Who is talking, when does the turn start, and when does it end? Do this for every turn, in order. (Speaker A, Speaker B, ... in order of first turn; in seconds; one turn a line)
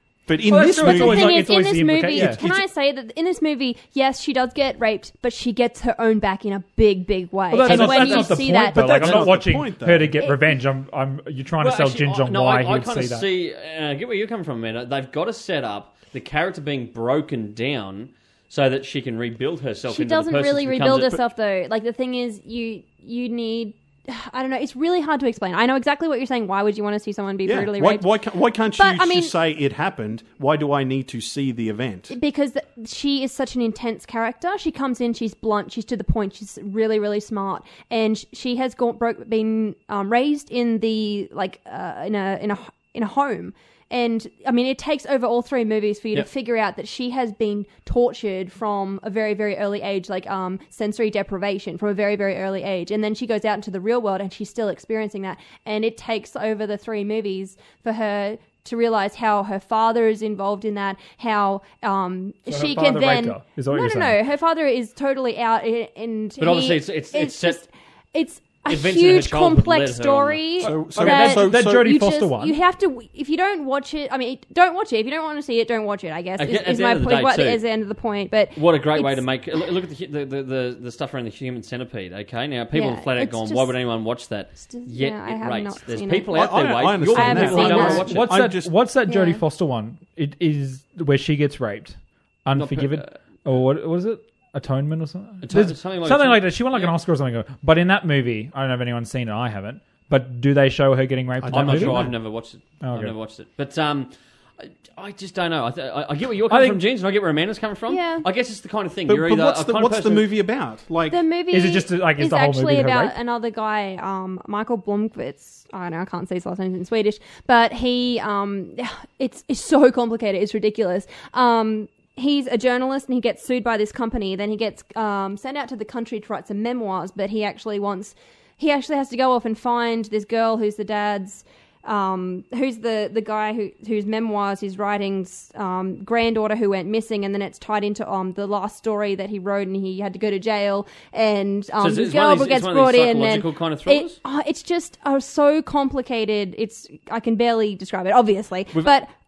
Speaker A: 0.3-1.4
Speaker B: 0.4-2.4
Speaker C: 0.8-9.4
Speaker A: 2.1-2.6
Speaker B: 7.5-13.3
Speaker D: 7.6-8.3
Speaker A: 7.7-10.2
Speaker D: 11.6-21.2
Speaker C: 19.9-28.1
Speaker A: 27.4-32.1
Speaker C: 28.8-29.3
Speaker C: 32.1-79.3
Speaker B: 62.5-64.2
Speaker D: 66.4-67.6
Speaker D: 68.7-70.7
Speaker A: 70.6-71.9
Speaker B: 71.0-72.6
Speaker D: 76.4-77.6
Speaker D: 78.5-88.3
Speaker C: 82.7-83.7
Speaker C: 84.6-86.3
Speaker A: 86.3-88.7
Speaker C: 87.1-88.3
Speaker B: 87.8-102.1
Speaker C: 89.1-89.4
Speaker D: 92.5-93.1
Speaker D: 95.4-96.9
Speaker A: 101.4-102.1
Speaker D: 101.5-110.3
Speaker B: 102.8-103.1
Speaker B: 106.5-106.8
Speaker C: 107.9-108.2
Speaker A: 109.1-111.2
Speaker C: 111.1-149.1
Speaker B: 111.5-113.2
Speaker D: 141.8-144.2